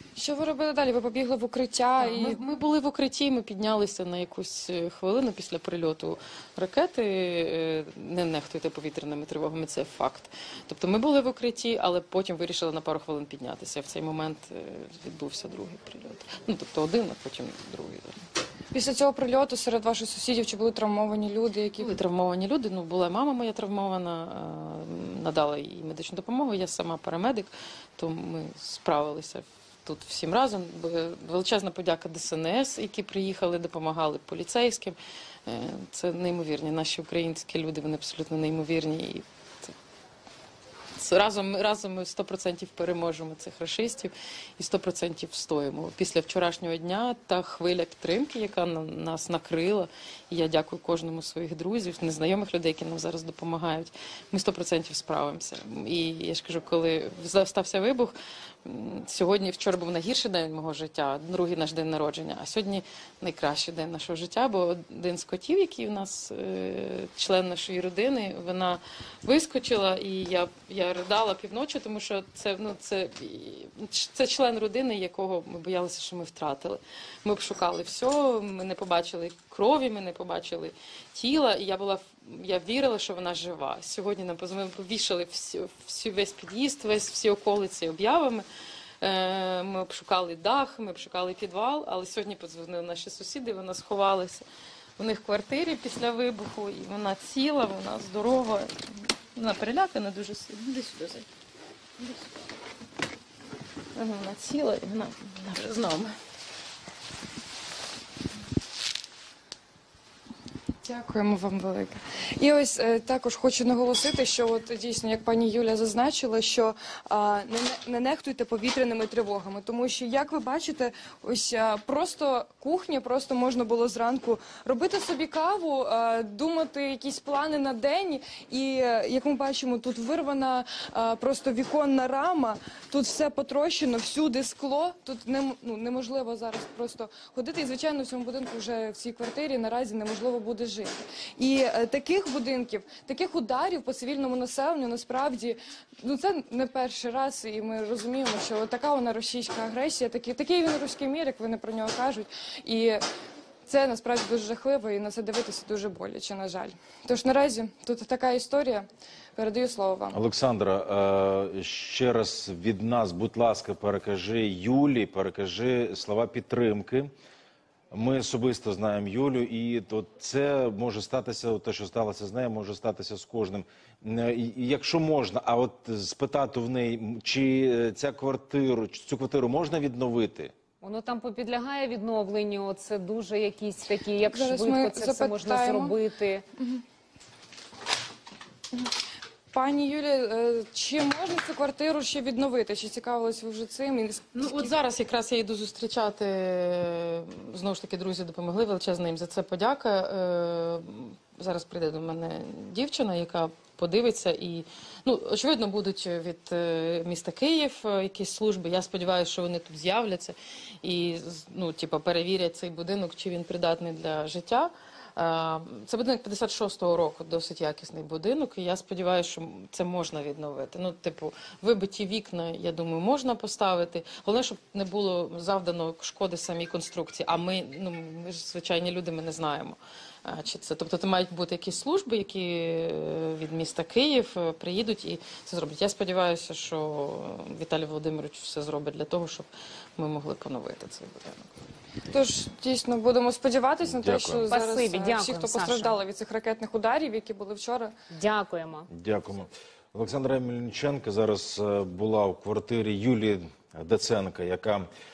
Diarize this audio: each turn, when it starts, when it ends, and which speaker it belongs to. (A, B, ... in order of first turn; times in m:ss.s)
0:00.2-0:02.4 A
0:02.0-0:18.2 B
0:18.7-0:21.9 A
0:21.8-0:39.7 B
0:41.0-1:28.4 B
1:29.0-1:34.4 B
1:35.0-1:41.2 B
1:43.9-1:46.1 B
1:50.8-2:33.0 A
2:33.6-2:40.2 A
2:40.1-2:47.1 C
2:47.9-3:00.5 C
3:00.8-3:06.4 D
3:04.2-3:06.0 A
3:06.6-3:06.8 A
3:09.5-3:14.7 A
3:14.3-4:01.6 B
4:02.1-4:07.9 A
4:03.8-4:04.5 C
4:04.4-4:06.0 D
4:08.1-4:08.9 D
4:08.9-4:14.9 C